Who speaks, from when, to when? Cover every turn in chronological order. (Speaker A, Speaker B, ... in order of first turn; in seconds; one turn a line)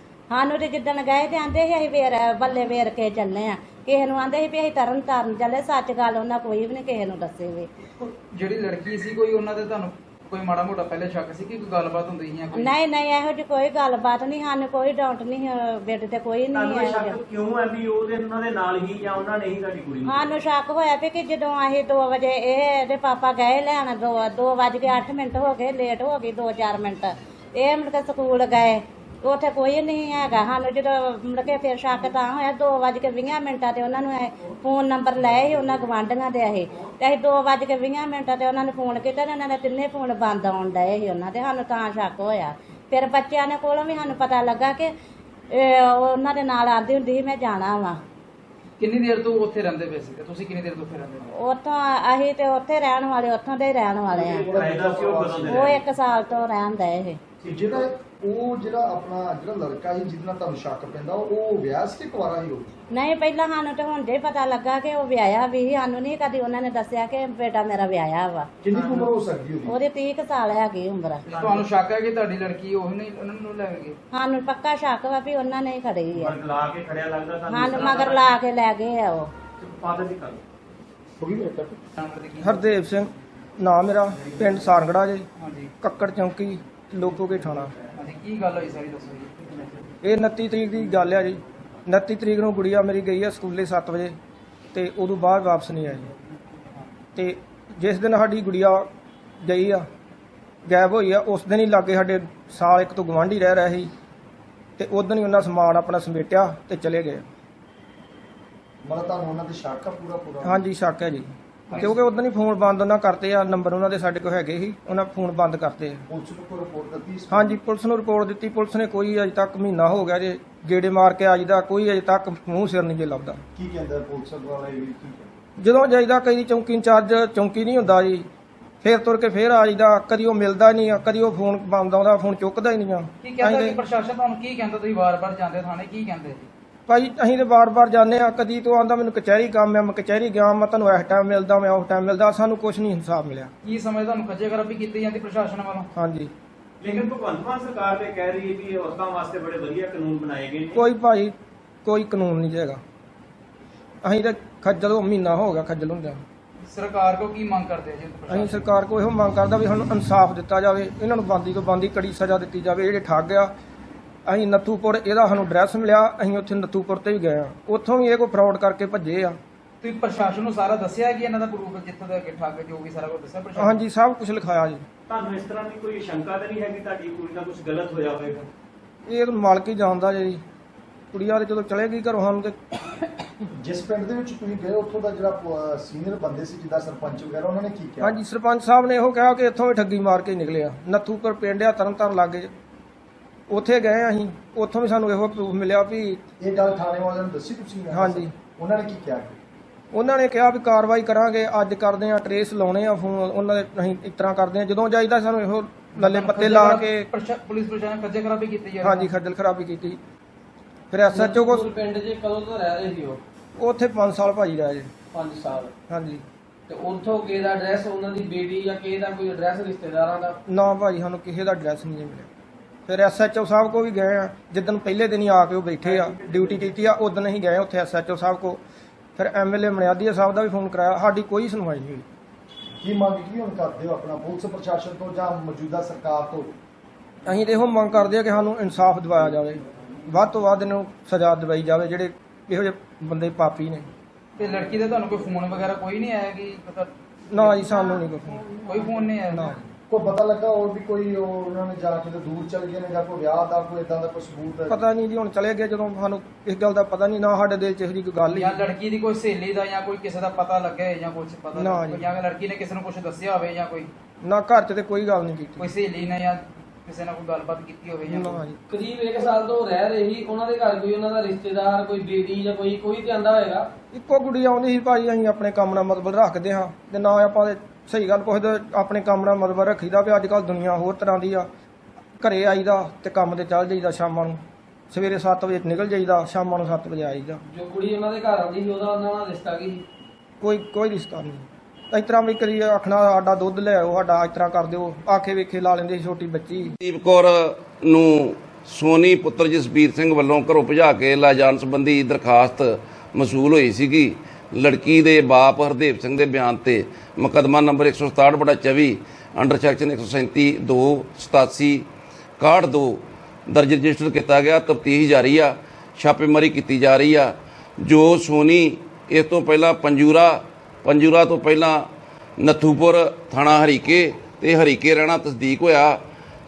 Speaker A: 0.3-7.7
Speaker B: 8.3-12.7
Speaker A: 12.5-17.2
Speaker C: 16.5-20.3
Speaker A: 20.1-44.9
Speaker A: 45.5-48.0
Speaker B: 48.8-51.3
Speaker A: 51.3-54.5
Speaker C: 54.1-55.8
Speaker D: 54.4-55.8
Speaker A: 55.5-57.2
Speaker D: 57.4-62.7
Speaker A: 62.9-68.5
Speaker D: 68.6-69.7
Speaker C: 68.7-69.1
Speaker A: 69.7-71.3
Speaker B: 71.3-74.0
Speaker C: 71.3-71.6
Speaker A: 74.1-76.4
Speaker C: 76.2-78.2
Speaker A: 77.5-79.3
Speaker C: 79.6-80.4
Speaker E: 81.2-81.8
Speaker B: 82.0-82.7
Speaker F: 82.4-85.2
Speaker B: 85.4-85.7
Speaker F: 85.8-87.7
Speaker B: 88.0-89.3
Speaker F: 90.0-94.2
Speaker F: 94.7-96.1
Speaker F: 97.2-98.9
Speaker F: 99.4-99.9
Speaker F: 100.7-103.9
Speaker F: 104.8-107.2
Speaker D: 108.8-110.6
Speaker F: 110.4-116.0
Speaker D: 116.1-117.6
Speaker F: 117.3-123.4
Speaker D: 123.5-125.3
Speaker F: 125.6-128.2
Speaker F: 128.8-133.8
Speaker B: 133.2-136.5
Speaker F: 136.9-143.5
Speaker B: 143.6-145.9
Speaker F: 145.9-146.3
Speaker C: 146.8-150.7
Speaker F: 150.7-152.8
Speaker F: 154.0-156.2
Speaker B: 156.7-158.7
Speaker F: 158.3-163.5
Speaker F: 164.3-169.4
Speaker B: 169.8-173.8
Speaker F: 173.6-174.8
Speaker C: 175.1-178.5
Speaker F: 179.1-180.4
Speaker F: 181.1-183.1
Speaker D: 183.6-188.1
Speaker F: 188.0-192.5
Speaker F: 193.5-196.2
Speaker D: 196.4-199.4
Speaker F: 197.9-198.3
Speaker F: 199.9-207.0
Speaker B: 205.9-209.1
Speaker F: 208.8-210.0
Speaker F: 210.9-211.7
Speaker E: 211.1-213.2
Speaker F: 213.6-214.9
Speaker E: 215.1-215.7
Speaker F: 215.9-216.2
Speaker E: 216.7-220.3
Speaker F: 220.5-222.3
Speaker F: 222.9-228.6
Speaker C: 225.8-226.4
Speaker F: 229.2-232.0
Speaker D: 232.8-236.5
Speaker F: 237.2-243.9
Speaker B: 244.3-248.0
Speaker F: 247.3-248.5
Speaker B: 248.6-249.6
Speaker F: 249.3-249.6
Speaker D: 249.9-254.8
Speaker F: 254.7-258.6
Speaker B: 258.3-263.9
Speaker F: 261.5-262.1
Speaker F: 264.2-265.7
Speaker B: 265.6-268.4
Speaker F: 268.1-268.6
Speaker E: 268.7-273.7
Speaker F: 273.9-281.5
Speaker F: 282.2-284.4
Speaker F: 284.9-287.4
Speaker E: 287.5-289.8
Speaker F: 290.4-296.8
Speaker G: 296.8-311.8
Speaker G: 312.4-321.9
Speaker G: 322.4-326.0